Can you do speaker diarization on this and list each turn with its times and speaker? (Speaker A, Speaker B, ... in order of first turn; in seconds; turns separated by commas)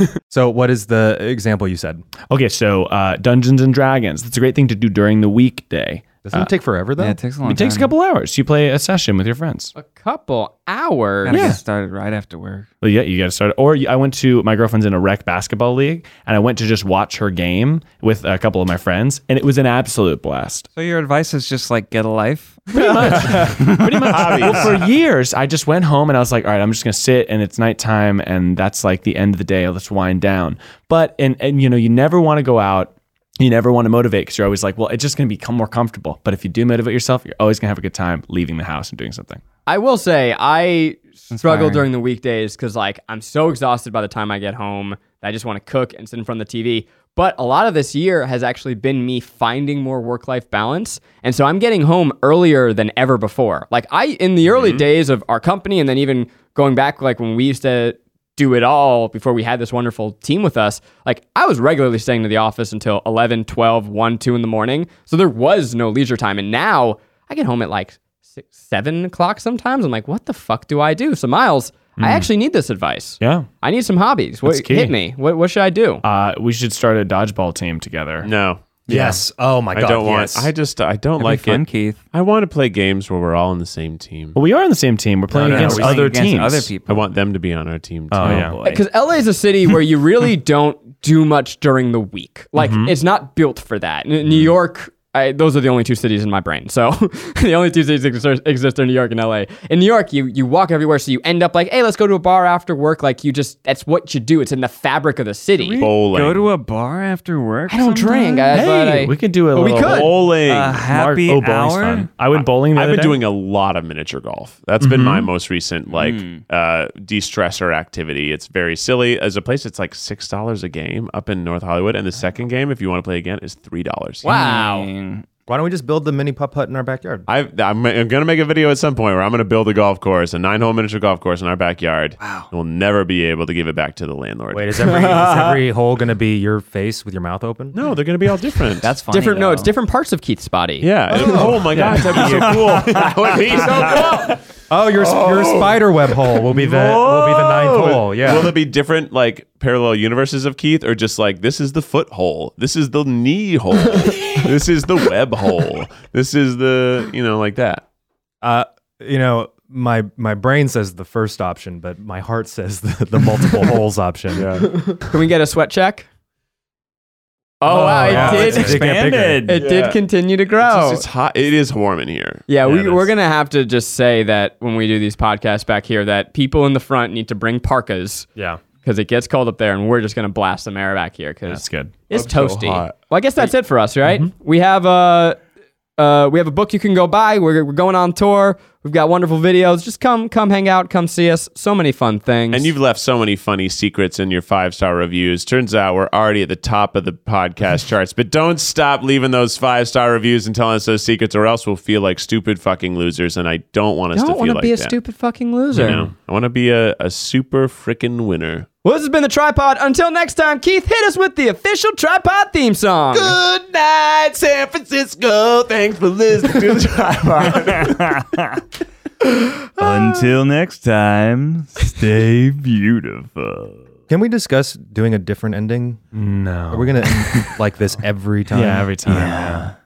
Speaker A: 0.3-2.1, Speaker B: 2.3-6.5, Speaker A: 6.2-7.2, Speaker C: 7.0-7.9, Speaker B: 7.4-9.7, Speaker D: 9.8-11.5, Speaker C: 11.2-12.7, Speaker B: 11.3-11.6, Speaker B: 12.8-20.7, Speaker C: 20.8-24.1, Speaker B: 22.7-39.4, Speaker E: 23.8-24.9, Speaker D: 39.7-76.0, Speaker C: 41.3-41.9, Speaker E: 54.5-54.9, Speaker B: 72.0-72.3, Speaker B: 73.2-73.5, Speaker B: 74.4-74.9, Speaker B: 76.0-78.3, Speaker E: 78.2-78.7, Speaker B: 78.9-79.2, Speaker A: 78.9-80.5, Speaker E: 79.7-84.4, Speaker C: 81.2-82.0, Speaker B: 84.3-86.7, Speaker C: 85.4-87.2, Speaker A: 85.4-85.9, Speaker E: 85.4-86.1, Speaker E: 86.8-88.5, Speaker B: 88.1-88.6, Speaker C: 88.2-88.8, Speaker D: 88.6-105.9, Speaker B: 92.6-92.9, Speaker C: 105.6-108.6, Speaker E: 105.8-106.5, Speaker D: 107.7-110.2, Speaker B: 108.5-113.2, Speaker C: 109.8-112.1, Speaker E: 112.3-124.3, Speaker B: 114.8-115.3, Speaker C: 115.9-116.5, Speaker D: 124.2-124.9, Speaker C: 124.2-125.2, Speaker A: 125.5-127.3, Speaker E: 127.3-135.5, Speaker C: 132.2-132.5, Speaker A: 134.5-137.8, Speaker D: 134.8-135.5, Speaker E: 137.7-138.9, Speaker C: 138.8-139.7, Speaker D: 139.1-140.9, Speaker E: 140.8-144.4, Speaker C: 141.1-144.2, Speaker A: 141.1-142.6, Speaker A: 144.7-148.6, Speaker E: 145.0-145.8, Speaker E: 146.4-157.8, Speaker A: 158.4-164.6, Speaker E: 164.3-164.7, Speaker D: 164.8-166.1, Speaker D: 167.6-168.8, Speaker B: 167.7-168.7, Speaker A: 167.8-169.5, Speaker C: 168.2-169.6, Speaker D: 169.5-171.0, Speaker E: 169.6-170.0, Speaker E: 170.6-173.1, Speaker D: 172.5-178.3, Speaker D: 178.8-185.4, Speaker B: 181.5-182.0, Speaker E: 182.1-183.0, Speaker D: 186.0-192.7, Speaker E: 192.5-204.9, Speaker D: 204.1-206.0, Speaker E: 205.8-208.7, Speaker D: 208.8-213.4, Speaker E: 213.1-218.1, Speaker C: 217.5-218.6, Speaker D: 219.2-220.1, Speaker C: 219.8-223.8, Speaker A: 224.1-226.0, Speaker B: 226.1-227.6, Speaker A: 226.7-229.4, Speaker B: 228.5-229.7, Speaker C: 229.1-229.7